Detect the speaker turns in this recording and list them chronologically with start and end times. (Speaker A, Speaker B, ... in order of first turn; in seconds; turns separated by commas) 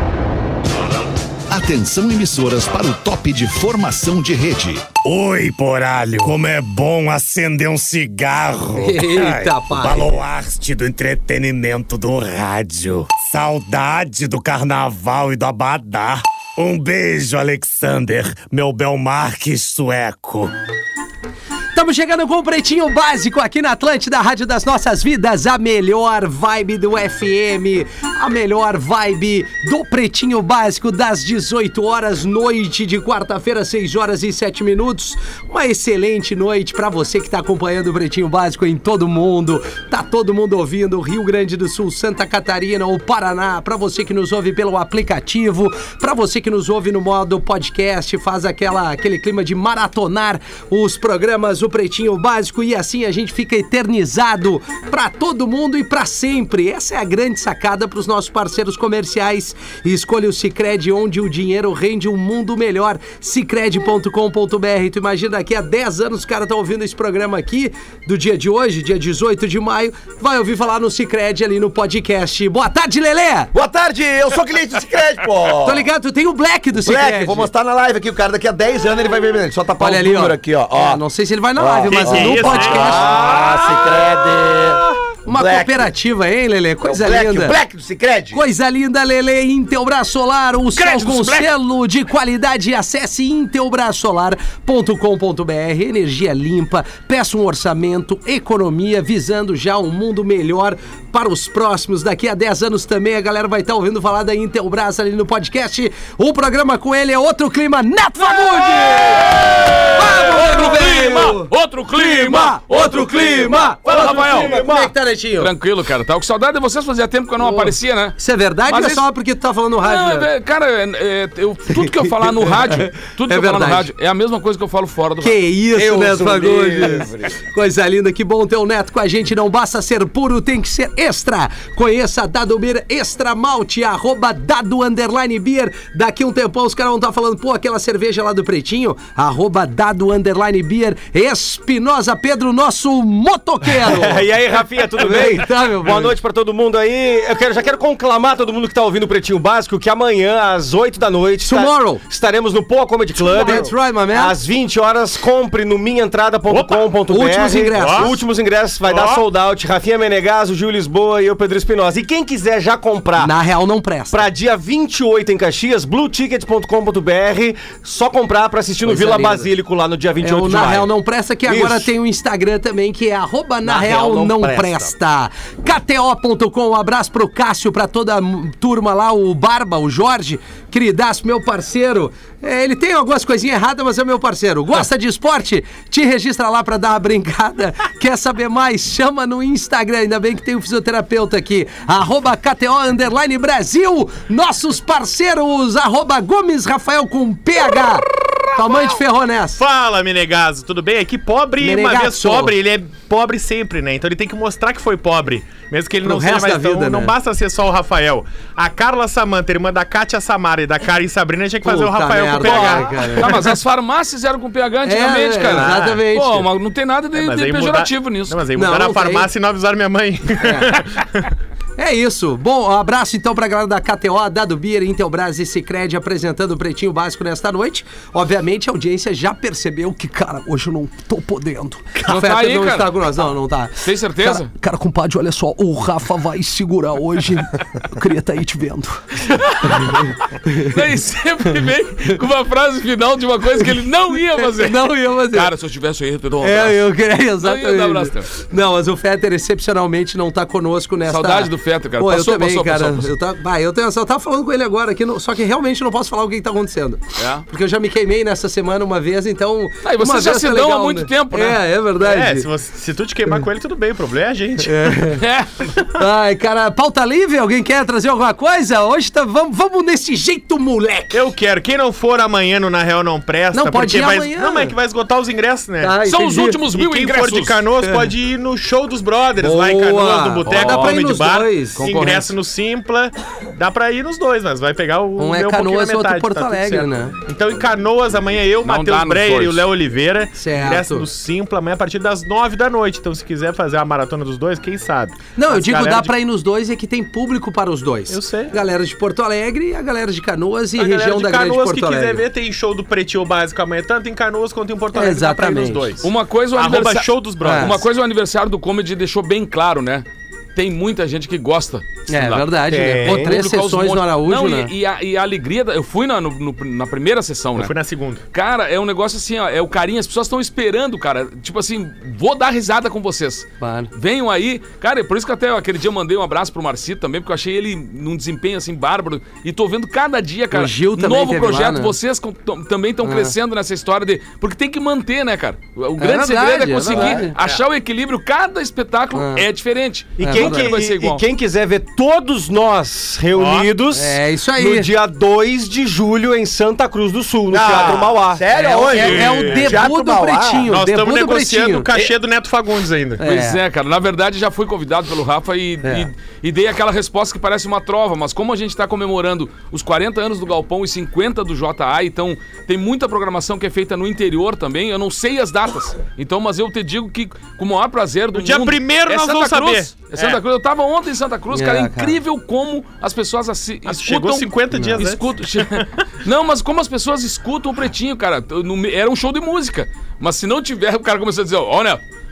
Speaker A: 1.5-4.9, Speaker B: 5.0-20.5, Speaker C: 8.7-10.2, Speaker C: 21.7-73.5, Speaker D: 73.5-75.9, Speaker C: 75.6-77.5, Speaker D: 76.8-81.0, Speaker C: 79.8-83.5, Speaker D: 81.5-85.9, Speaker E: 81.9-83.9, Speaker C: 85.2-87.6, Speaker D: 86.8-88.4, Speaker C: 88.3-115.5, Speaker F: 90.8-91.5, Speaker F: 108.9-114.6, Speaker G: 113.9-114.9, Speaker F: 115.3-118.2, Speaker C: 117.4-120.3, Speaker F: 118.7-119.0, Speaker F: 119.8-125.4, Speaker C: 121.7-123.9, Speaker C: 125.2-144.2, Speaker D: 125.7-127.4, Speaker G: 143.8-163.3, Speaker C: 145.0-146.2, Speaker C: 151.4-152.0, Speaker E: 153.2-153.6, Speaker C: 153.3-154.3, Speaker E: 156.5-156.9, Speaker C: 157.1-158.1, Speaker E: 157.7-158.2, Speaker E: 158.8-159.2, Speaker C: 163.2-164.3, Speaker G: 164.1-170.9, Speaker C: 168.8-169.5, Speaker C: 170.2-199.6, Speaker G: 171.4-171.9, Speaker G: 173.6-174.9, Speaker E: 199.6-213.5, Speaker C: 201.6-202.6, Speaker C: 206.0-207.1, Speaker C: 211.6-213.5, Speaker F: 212.4-218.4, Speaker C: 214.8-216.5, Speaker E: 215.5-216.0, Speaker E: 217.1-221.3, Speaker C: 218.5-219.3, Speaker C: 220.4-220.8, Speaker C: 221.8-239.0, Speaker F: 232.1-232.9, Speaker F: 233.8-234.5, Speaker F: 239.3-248.3, Speaker C: 239.6-240.7, Speaker C: 244.3-245.5, Speaker C: 246.4-262.5, Speaker F: 251.1-253.1, Speaker F: 257.2-257.4, Speaker F: 259.8-261.6, Speaker E: 262.0-265.0, Speaker C: 264.6-265.2, Speaker F: 265.2-265.5, Speaker C: 265.9-271.3, Speaker E: 271.1-276.0, Speaker C: 273.5-274.7, Speaker C: 275.8-276.6, Speaker F: 276.1-277.6, Speaker E: 276.7-296.1, Speaker C: 277.8-278.1, Speaker C: 279.4-281.8, Speaker F: 280.4-281.0, Speaker F: 281.8-282.4, Speaker C: 285.2-287.1, Speaker F: 288.6-289.6, Speaker C: 290.3-291.1, Speaker C: 295.4-302.2, Speaker E: 298.1-298.5, Speaker E: 300.8-307.9, Speaker C: 304.9-305.9, Speaker F: 306.0-312.5, Speaker C: 307.4-307.8, Speaker C: 312.1-314.7, Speaker G: 312.7-313.3, Speaker F: 313.0-317.7, Speaker E: 317.5-318.2, Speaker F: 318.3-341.2, Speaker C: 323.6-323.9, Speaker C: 330.5-331.9, Speaker C: 333.0-333.4, Speaker C: 336.0-337.4, Speaker E: 336.9-337.6, Speaker C: 339.1-339.4, Speaker G: 340.2-348.4, Speaker C: 340.2-340.7, Speaker E: 343.3-343.7, Speaker C: 343.9-344.9, Speaker D: 347.5-350.7, Speaker E: 347.6-348.1, Speaker C: 348.5-351.9, Speaker F: 348.8-349.3, Speaker E: 349.0-349.7, Speaker E: 350.6-353.2, Speaker C: 353.2-353.6, Speaker F: 353.2-382.0, Speaker E: 368.3-370.4, Speaker C: 371.5-372.2, Speaker E: 373.9-375.8, Speaker C: 374.7-375.0